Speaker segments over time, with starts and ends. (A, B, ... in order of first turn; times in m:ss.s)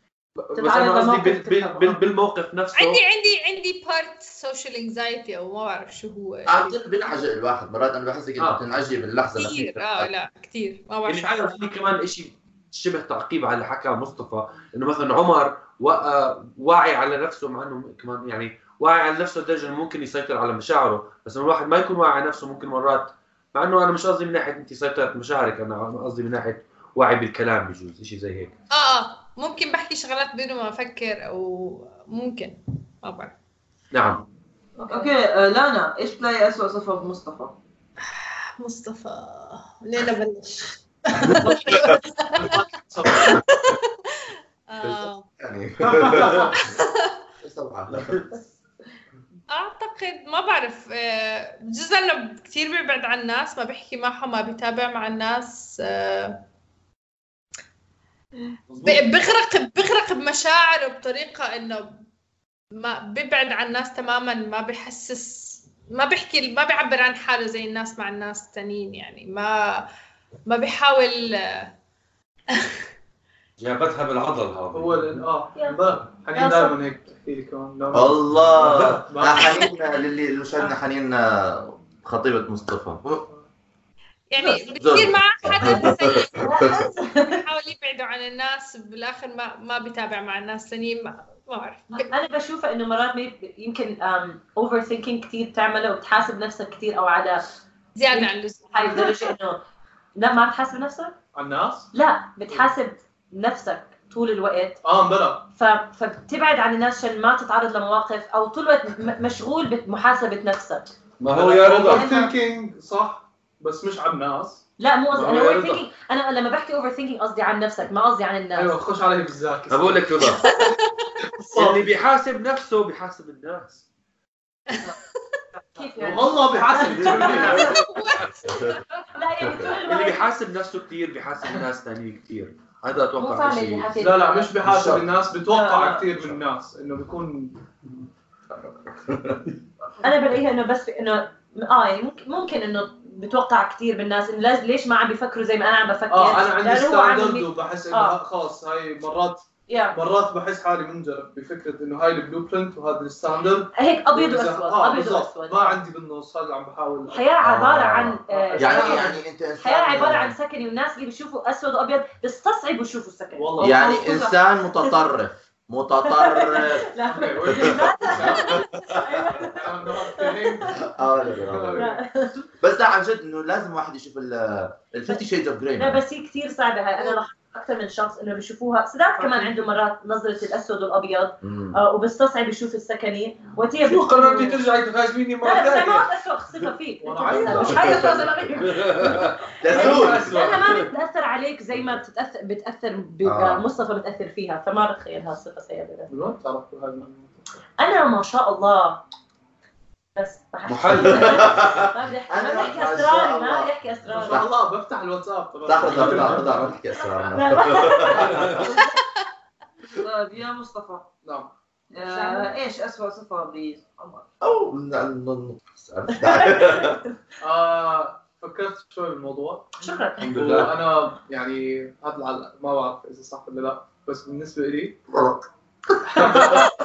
0:00.4-0:03.0 A
0:00.5-0:02.0 B
0:02.7-0:06.7 C
0:06.5-0:10.1 D
0:08.4-0:08.6 A
0:09.4-0:11.5 C
0:11.0-0:28.5 A
0:28.7-0:33.3 C
0:33.9-0:34.2 A
0:34.8-0:35.1 B
0:34.9-0:37.6 E
0:38.2-0:45.2 C
0:41.5-0:42.0 D
0:42.4-0:43.4 F
0:44.8-0:46.8 D
0:45.9-0:46.5 F
0:46.5-0:47.1 C
0:47.4-0:48.3 D
0:49.5-0:56.4 C
0:58.7-0:59.0 A
0:58.8-1:02.0 C
1:02.7-1:09.8 C
1:10.5-1:11.7 C
1:13.6-1:15.2 A
1:14.7-1:19.6 F
1:15.5-1:15.8 B
1:16.3-1:16.7 B
1:17.9-1:23.2 D
1:18.5-1:19.0 A
1:24.3-1:32.1 C
1:24.8-1:26.9 D
1:26.4-1:27.4 B
1:31.9-1:37.4 B
1:38.0-1:39.3 C
1:38.1-1:39.6 B
1:40.2-1:41.1 B
1:41.3-1:41.9 F
1:41.9-1:44.8 B
1:44.8-1:45.4 F
1:45.6-1:50.9 B
1:51.2-1:52.1 A
1:51.3-1:54.6 F
1:51.9-1:52.3 B
1:54.8-1:58.8 B
1:55.1-1:55.8 A
1:58.5-2:00.3 F
1:59.7-2:00.5 A
2:00.3-2:01.1 C
2:01.4-2:01.9 F
2:01.5-2:03.8 A
2:04.7-2:05.0 C
2:05.7-2:06.2 E
2:05.8-2:07.9 B
2:06.0-2:07.7 F
2:07.2-2:08.2 A
2:07.6-2:08.8 C
2:08.4-2:08.8 D
2:08.9-2:10.3 B
2:09.4-2:09.7 D
2:09.8-2:13.9 A
2:13.2-2:14.5 B
2:14.0-2:17.6 F
2:14.6-2:15.0 D
2:15.5-2:16.1 E
2:19.0-2:19.4 D
2:20.0-2:28.1 B
2:26.1-2:37.2 F
2:29.7-2:30.0 B
2:33.8-2:35.8 B
2:37.1-2:39.1 B
2:37.4-2:40.3 D
2:38.3-2:39.2 F
2:39.6-2:44.9 B
2:43.3-2:44.3 F
2:43.6-2:46.9 D
2:43.8-2:44.3 E
2:46.0-2:50.8 B
2:47.0-2:48.4 F
2:47.5-2:49.6 D
2:49.5-2:52.0 F
2:50.7-2:51.9 D
2:51.7-2:52.4 B
2:52.6-2:56.0 D
2:55.8-3:04.6 B
2:59.2-2:59.5 F
3:01.4-3:01.8 D
3:03.8-3:06.1 A
3:05.4-3:16.1 B
3:07.0-3:08.3 F
3:07.3-3:08.5 D
3:08.6-3:10.9 A
3:09.6-3:10.5 D
3:13.2-3:13.6 D
3:16.1-3:17.4 F
3:17.8-3:19.0 B
3:20.2-3:24.4 B
3:20.6-3:21.8 A
3:20.9-3:24.5 D
3:24.1-3:26.7 F
3:25.6-3:28.7 D
3:25.8-3:26.4 A
3:27.2-3:28.8 B
3:28.1-3:28.9 E
3:29.9-3:31.1 E
3:31.2-3:31.5 F
3:31.9-3:34.3 E
3:32.1-3:32.5 B
3:34.4-3:37.0 D
3:36.3-3:36.9 B
3:37.4-3:45.0 F
3:39.8-3:40.3 B
3:40.2-3:40.7 A
3:45.1-3:45.5 D
3:46.2-3:46.6 F
3:46.3-3:46.6 D